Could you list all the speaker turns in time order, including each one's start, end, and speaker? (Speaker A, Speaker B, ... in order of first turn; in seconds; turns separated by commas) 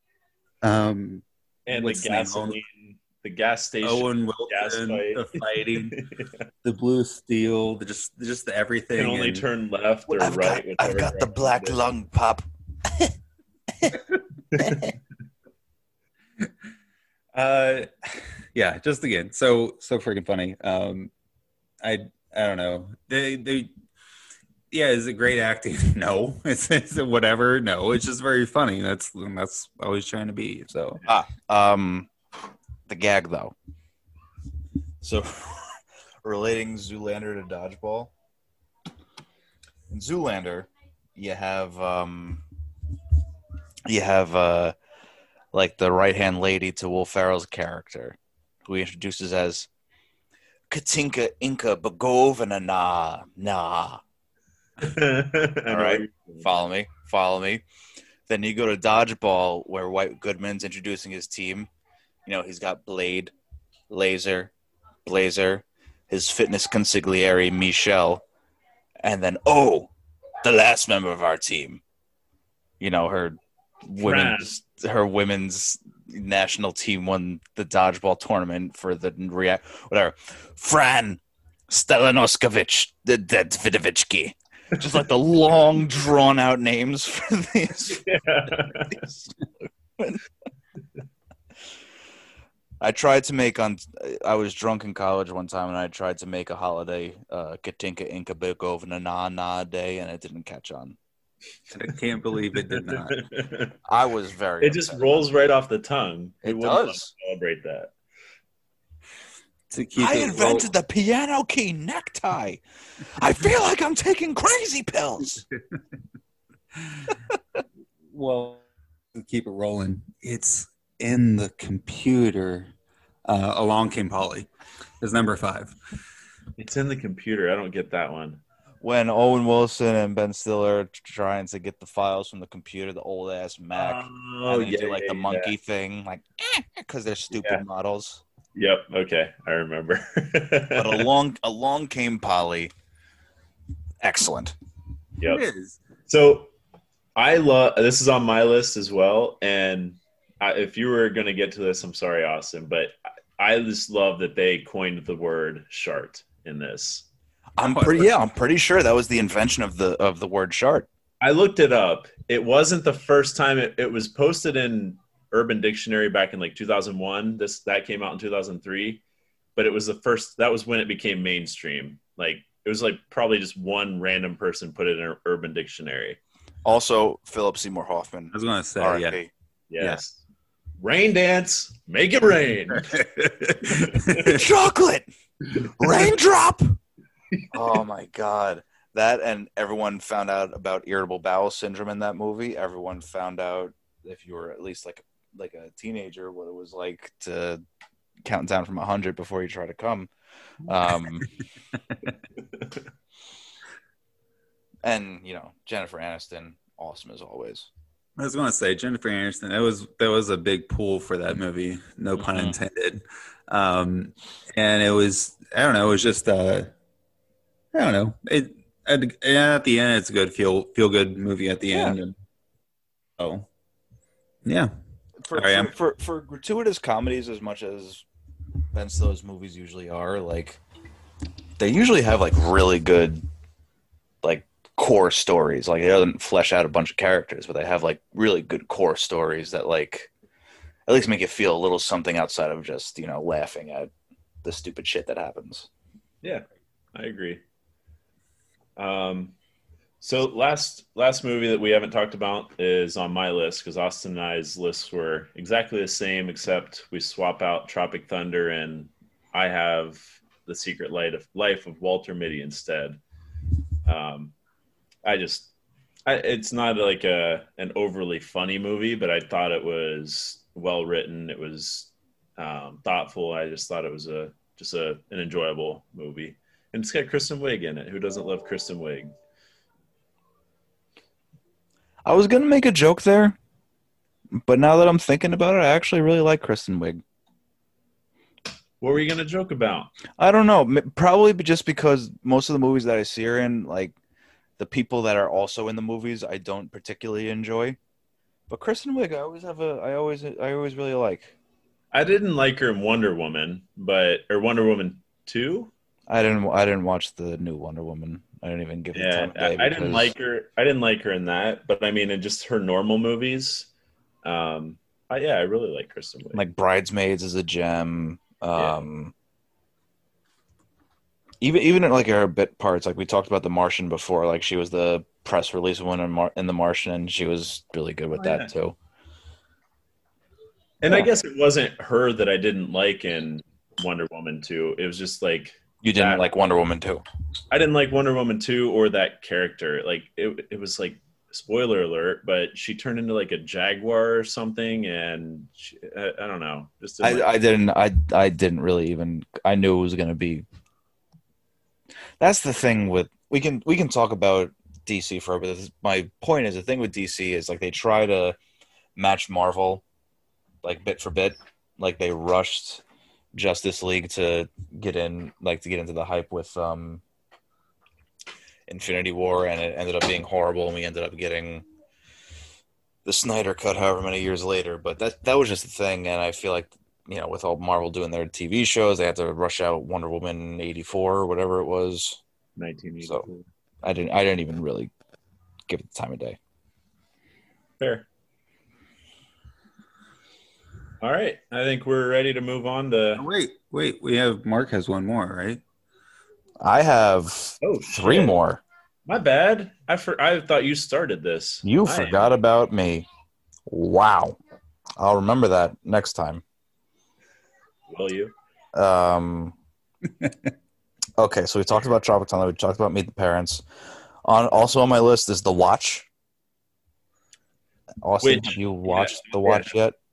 Speaker A: 0.6-2.6, Speaker B: 1.7-6.3, Speaker A: 3.8-6.0, Speaker A: 6.6-9.4, Speaker B: 9.0-11.8, Speaker C: 10.2-13.1, Speaker B: 14.6-14.9, Speaker A: 17.3-21.1, Speaker A: 21.8-23.7, Speaker A: 24.7-31.0, Speaker C: 31.1-32.1, Speaker C: 32.9-33.5, Speaker C: 35.0-38.1, Speaker C: 39.9-42.4, Speaker C: 43.9-44.7, Speaker C: 45.5-49.7, Speaker C: 50.7-54.0, Speaker B: 54.8-56.7, Speaker C: 55.7-57.6, Speaker C: 58.3-61.7, Speaker C: 62.3-63.3, Speaker C: 63.9-64.5, Speaker C: 65.0-68.2, Speaker C: 69.0-69.9, Speaker C: 70.4-71.8, Speaker C: 72.8-88.0, Speaker B: 74.0-74.5, Speaker B: 87.9-89.0, Speaker C: 88.9-89.3, Speaker C: 92.8-101.0, Speaker A: 101.7-103.2, Speaker B: 102.7-103.7, Speaker C: 103.9-105.2, Speaker B: 104.6-107.9, Speaker C: 106.4-107.1, Speaker A: 109.7-110.7, Speaker C: 110.0-112.6, Speaker C: 113.2-115.4, Speaker A: 118.1-118.6, Speaker A: 119.1-122.7, Speaker A: 123.2-124.5, Speaker A: 125.0-125.8, Speaker B: 126.6-128.4, Speaker C: 128.8-138.2, Speaker B: 133.8-135.5, Speaker B: 137.3-137.6, Speaker B: 138.6-141.1, Speaker C: 140.7-142.7, Speaker C: 144.0-144.6, Speaker A: 145.2-145.8, Speaker B: 146.1-146.5, Speaker B: 147.2-157.1, Speaker C: 157.6-160.9, Speaker A: 157.6-158.1, Speaker B: 161.2-169.0, Speaker B: 169.6-176.2, Speaker C: 176.7-179.3, Speaker A: 178.3-179.2, Speaker B: 179.7-180.2, Speaker B: 180.8-183.0, Speaker A: 182.8-184.4, Speaker B: 183.7-184.3, Speaker C: 184.2-185.1, Speaker C: 185.6-186.8, Speaker C: 187.5-197.6, Speaker C: 198.2-200.1, Speaker C: 200.7-201.3, Speaker C: 204.8-207.7, Speaker A: 208.2-216.7, Speaker C: 212.2-212.6, Speaker A: 217.7-222.1, Speaker C: 221.7-222.0, Speaker A: 223.2-223.5, Speaker A: 224.4-224.7, Speaker C: 225.2-228.1, Speaker A: 225.3-225.7, Speaker C: 228.7-230.6, Speaker C: 231.6-233.2, Speaker C: 234.2-240.1, Speaker C: 240.9-243.9, Speaker C: 244.4-245.7, Speaker B: 246.2-247.4, Speaker B: 248.8-249.3, Speaker B: 250.0-263.0, Speaker B: 263.9-264.3, Speaker B: 265.1-265.5, Speaker B: 266.1-279.1, Speaker C: 282.1-283.4, Speaker C: 284.4-287.0, Speaker B: 288.8-289.9, Speaker C: 290.2-293.9, Speaker C: 294.6-297.8, Speaker C: 298.5-301.4, Speaker B: 301.9-305.7, Speaker C: 306.1-310.1, Speaker B: 308.9-313.7, Speaker B: 314.2-316.4, Speaker C: 316.3-319.1, Speaker B: 318.6-318.8, Speaker C: 321.4-328.8, Speaker B: 330.8-336.2, Speaker C: 335.8-337.1, Speaker B: 337.5-347.3, Speaker C: 347.0-350.4, Speaker C: 352.2-358.4, Speaker C: 359.0-359.8, Speaker C: 360.6-367.0, Speaker C: 368.7-371.7, Speaker C: 373.1-382.2, Speaker B: 382.6-383.5, Speaker C: 383.8-384.9, Speaker C: 385.7-386.4, Speaker B: 387.8-388.1, Speaker B: 391.0-393.2, Speaker A: 393.2-395.6, Speaker C: 396.6-398.6, Speaker B: 397.6-398.4, Speaker B: 399.1-402.3, Speaker C: 401.6-403.1, Speaker C: 403.7-404.4, Speaker C: 405.0-406.4, Speaker B: 407.9-408.3, Speaker C: 408.7-409.6, Speaker C: 411.2-413.6, Speaker C: 414.2-416.1, Speaker C: 418.0-420.0, Speaker B: 418.2-419.7